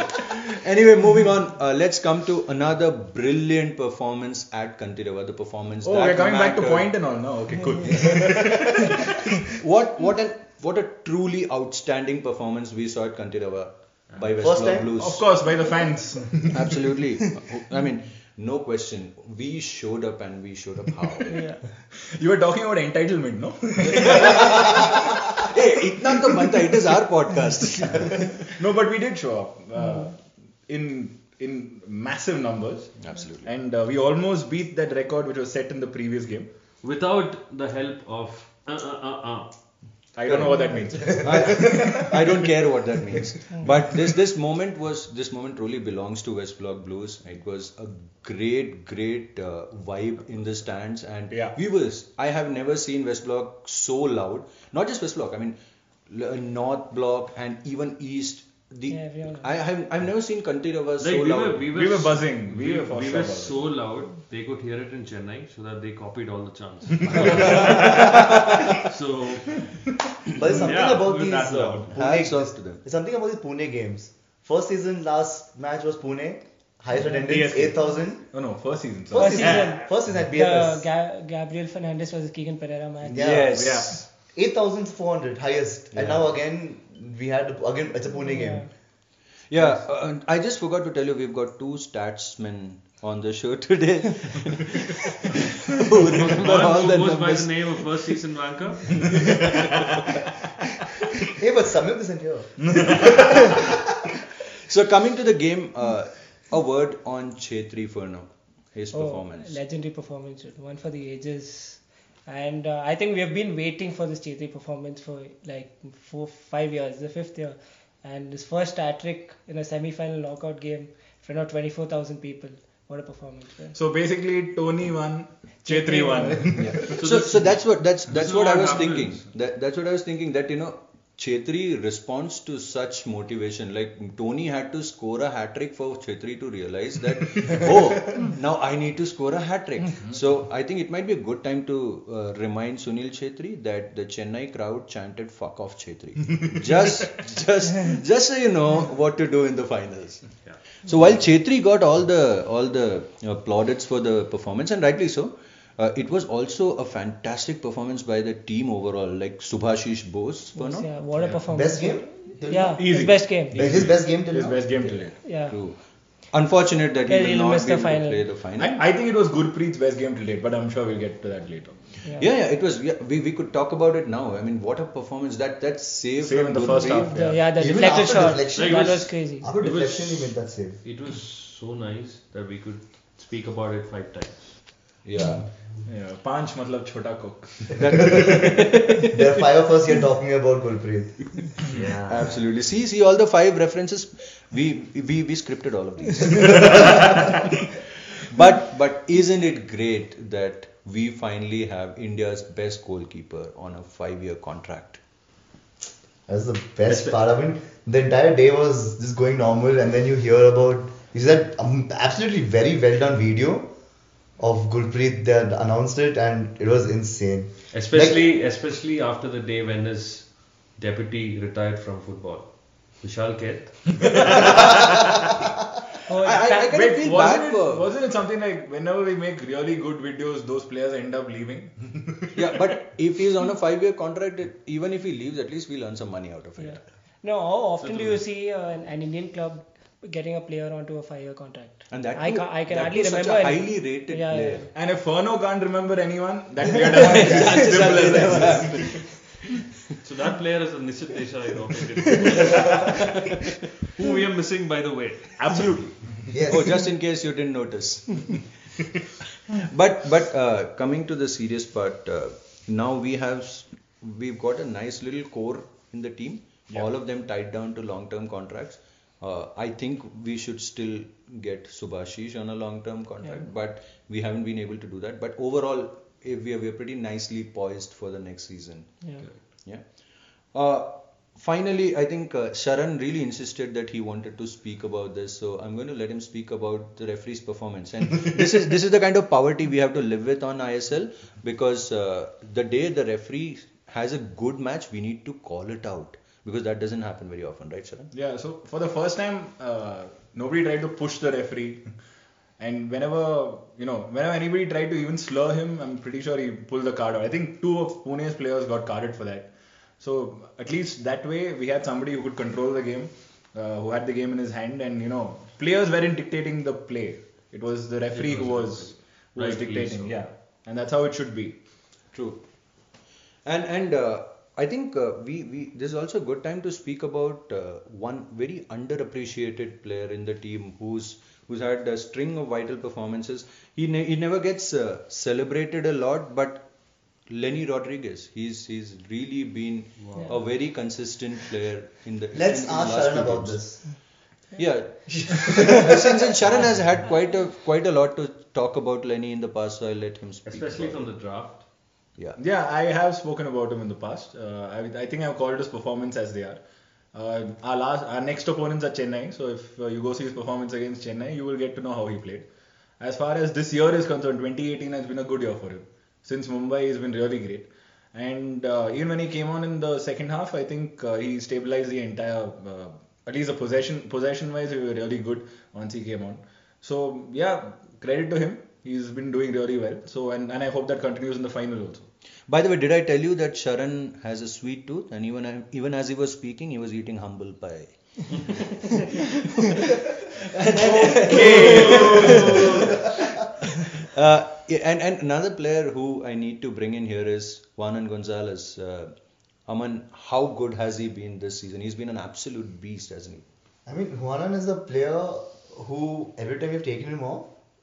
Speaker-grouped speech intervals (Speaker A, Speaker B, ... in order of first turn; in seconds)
Speaker A: 0.5-6.9, 8.1-8.3, 9.5-15.2, 16.5-21.4, 23.8-28.2, 33.0-33.5, 40.3-55.6, 56.1-61.7, 67.3-68.5, 71.9-72.8, 83.2-84.0, 85.9-86.2, 89.5-98.2, 99.0-99.5, 104.7-109.6, 126.6-160.9, 165.4-168.8, 172.2-177.2, 185.0-185.4, 187.8-189.2, 192.1-197.5, 198.2-205.0, 226.2-227.9, 232.3-236.9, 241.9-244.7, 246.9-249.1, 256.5-258.5, 259.5-279.1, 279.6-280.0, 280.5-298.1, 322.1-322.4, 323.4-336.6, 337.3-343.9, 344.6-351.0, 382.5-393.1, 394.0-399.1, 399.7-403.4
Speaker B: 5.8-9.2, 15.0-16.6, 22.0-25.4, 26.1-26.7, 27.8-36.5, 40.1-42.3, 51.3-51.6, 61.7-63.6, 67.0-67.5, 77.2-79.7, 83.5-84.0, 102.7-103.2, 123.7-127.0, 162.7-165.2, 168.6-172.0, 176.2-177.4, 185.8-188.2, 226.7-232.6, 244.7-249.2, 255.4-256.4, 298.1-301.9, 302.6-321.6, 352.4-356.6, 357.1-362.5, 363.0-382.1, 390.8-392.9
Speaker C: 14.4-14.9, 41.0-41.9, 70.4-78.3, 79.1-80.9, 83.1-88.7, 101.3-103.8, 161.5-164.7, 177.6-180.8, 189.1-191.5, 206.3-213.7, 214.4-218.2, 247.2-248.6, 256.3-256.9, 342.3-343.8, 345.2-346.0, 403.9-407.5
Speaker D: 21.3-21.6, 58.9-59.5, 79.2-83.3, 88.2-88.7, 108.9-123.8, 125.6-126.8, 160.6-163.8, 165.2-165.6, 167.1-168.2, 172.0-172.3, 176.8-179.5, 226.1-226.7, 236.6-244.7
Speaker E: 36.8-39.5, 61.0-69.8, 70.4-72.0, 96.1-99.5, 127.0-129.3, 178.5-184.6, 191.7-192.4, 217.7-225.2, 237.8-238.2, 250.0-255.8, 318.1-320.2, 340.0-340.4, 350.5-351.7